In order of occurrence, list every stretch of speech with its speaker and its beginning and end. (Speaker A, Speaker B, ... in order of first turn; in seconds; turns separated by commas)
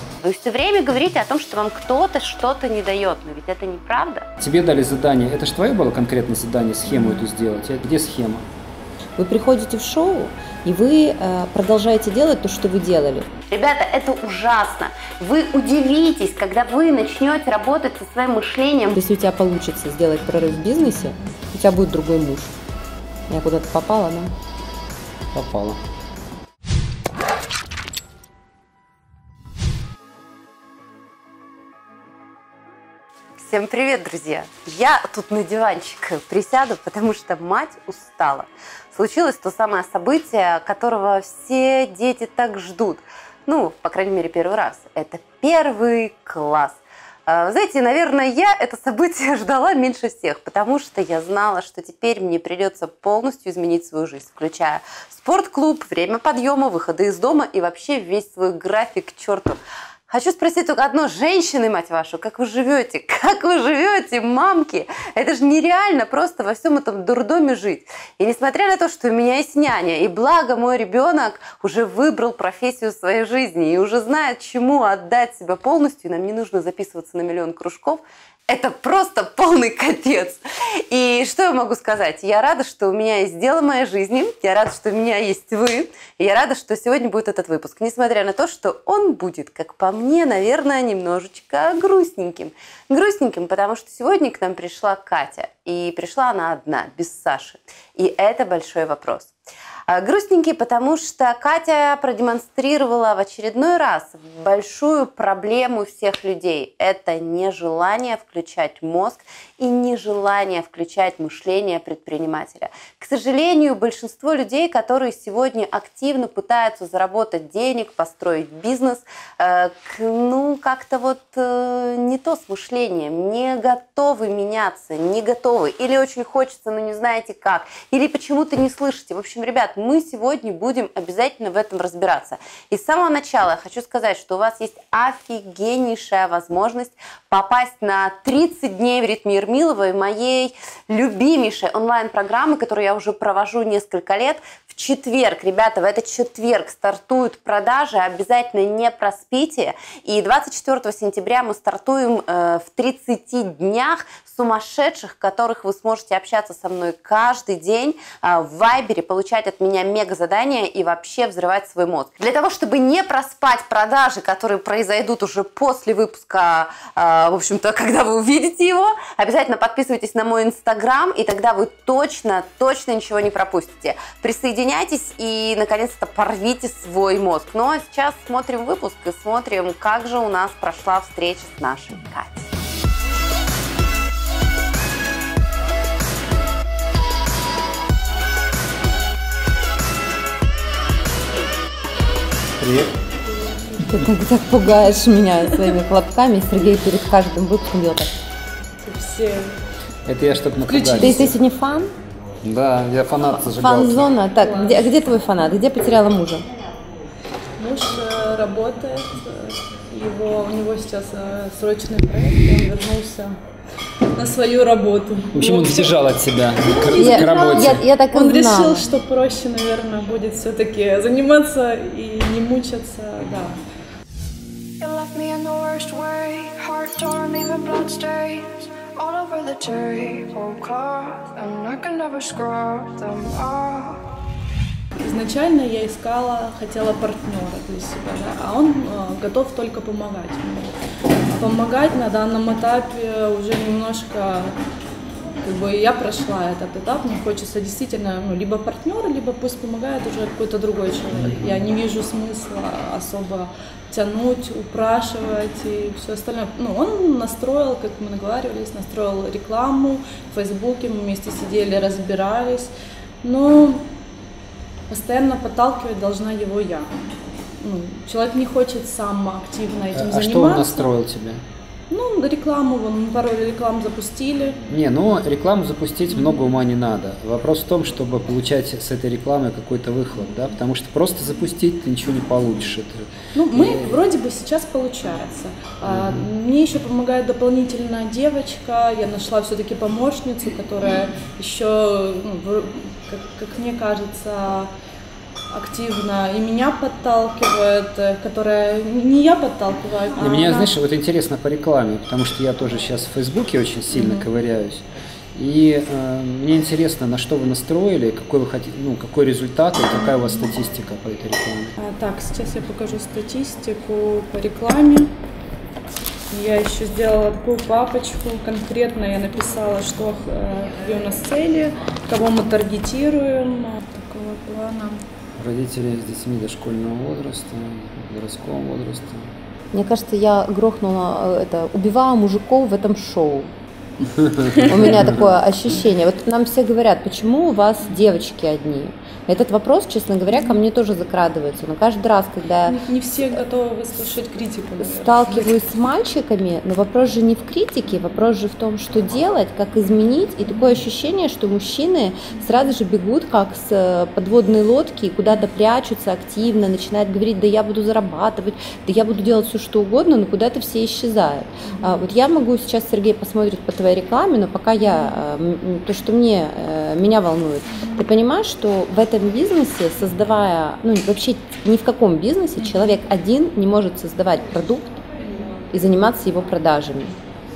Speaker A: 0.2-4.2, Speaker B: 4.4-8.5, Speaker C: 9.2-13.3, Speaker A: 13.5-19.0, Speaker C: 18.9-22.5, Speaker C: 23.3-24.3, Speaker B: 25.3-25.8, Speaker A: 33.4-59.6, Speaker A: 60.1-99.3, Speaker A: 99.9-182.5, Speaker B: 192.6-193.0, Speaker C: 193.8-198.1, Speaker D: 198.8-199.6, Speaker B: 200.0-201.4, Speaker D: 200.6-201.3, Speaker C: 201.0-201.9, Speaker B: 202.4-204.1, Speaker C: 203.3-206.4, Speaker D: 204.4-204.9, Speaker D: 207.6-213.4, Speaker D: 214.1-215.9, Speaker B: 215.3-217.8, Speaker D: 216.6-223.6, Speaker C: 216.9-218.8, Speaker E: 224.8-234.0, Speaker D: 235.0-240.7, Speaker D: 241.3-244.6, Speaker D: 245.4-263.9, Speaker B: 251.2-251.5, Speaker D: 264.9-266.9, Speaker D: 267.6-270.9, Speaker B: 269.9-271.4, Speaker D: 271.9-274.6, Speaker B: 274.7-284.0, Speaker D: 276.1-276.4, Speaker D: 283.3-294.7, Speaker B: 285.9-286.2, Speaker D: 295.5-300.7, Speaker B: 300.1-311.8, Speaker D: 303.9-304.3, Speaker D: 311.8-315.1, Speaker D: 316.3-325.0, Speaker B: 325.4-329.3, Speaker C: 329.7-333.5, Speaker B: 334.0-335.3, Speaker D: 334.4-334.7, Speaker C: 334.6-343.4, Speaker D: 342.6-345.5, Speaker C: 344.8-375.0, Speaker D: 361.6-362.0, Speaker C: 375.7-377.2